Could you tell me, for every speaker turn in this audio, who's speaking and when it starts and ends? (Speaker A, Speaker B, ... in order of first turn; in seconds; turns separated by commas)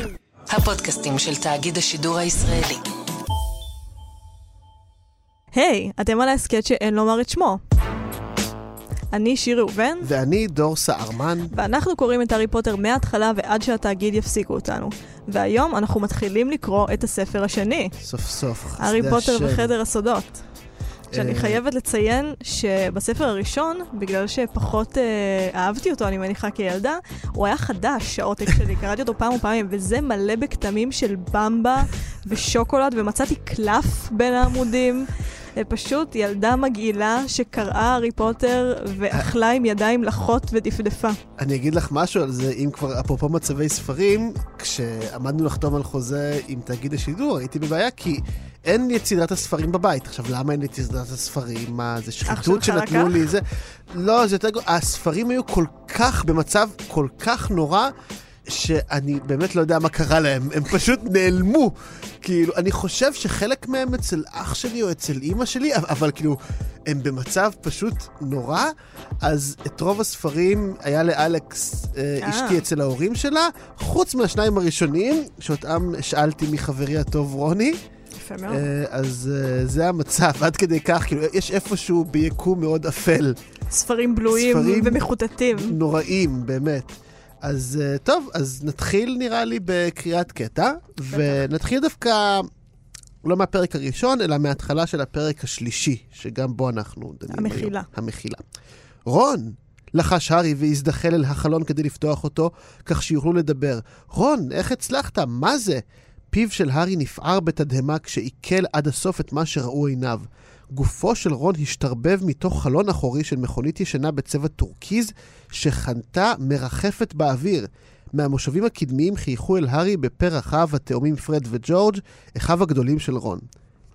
Speaker A: 0.5-2.8, Speaker B: 5.5-7.6, Speaker B: 9.1-10.1, Speaker C: 10.0-11.5, Speaker B: 11.5-17.9, Speaker C: 18.0-19.7, Speaker B: 18.8-20.4, Speaker C: 21.1-21.6, Speaker B: 21.1-41.2, Speaker C: 41.4-57.9, Speaker B: 52.3-53.3, Speaker C: 58.5-77.8, Speaker B: 72.2-72.6, Speaker B: 78.2-78.7, Speaker C: 78.5-83.3, Speaker B: 83.7-85.8, Speaker C: 84.3-85.0, Speaker C: 85.5-92.5, Speaker B: 91.1-91.4, Speaker C: 93.2-98.4, Speaker B: 97.3-97.9, Speaker C: 99.1-123.4